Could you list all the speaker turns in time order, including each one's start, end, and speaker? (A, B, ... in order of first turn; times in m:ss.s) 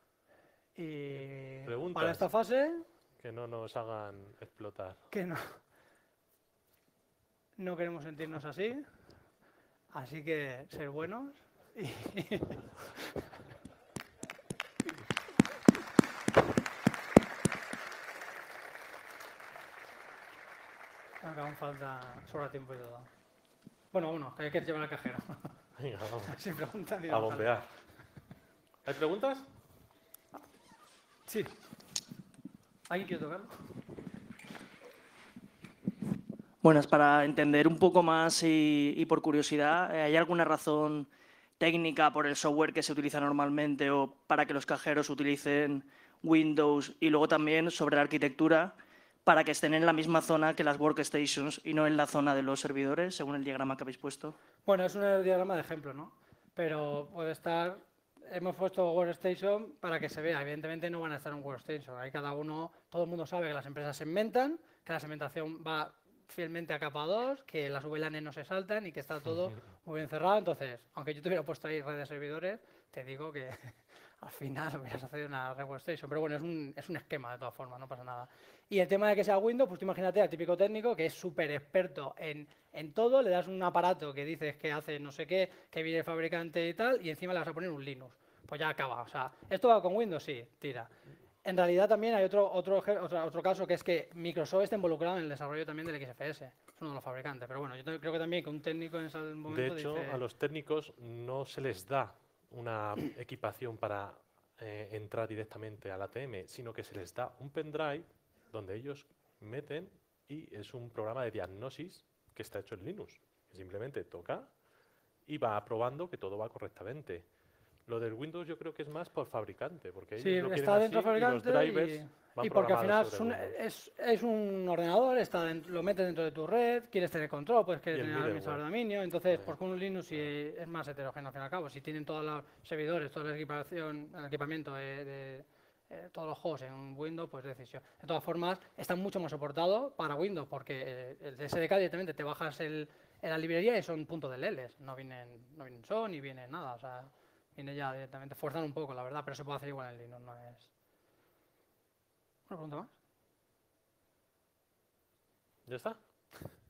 0:00.8-0:02.9 A
0:01.7-0:02.3 B
0:03.2-0:05.1 B
0:05.1-0:05.6 A
0:07.6-0:08.9 A
0:09.9-0:12.7 A
0:21.2-0:23.1 A
0:23.9-0:25.5 A
0:25.8-0:26.4 B
0:26.3-0:27.7 A
0:27.1-0:27.7 B
0:28.8-0:29.5 B
0:31.3-0:31.6 A
0:32.9-0:33.5 A
0:36.6-0:54.4 C
0:54.7-1:30.9 A
1:31.4-1:40.2 A
1:39.5-1:54.5 B
1:55.3-1:57.3 B
1:57.9-2:03.6 B
2:00.2-2:30.7 A
2:07.9-2:08.6 B
2:32.5-2:32.9 A
2:35.7-2:36.0 B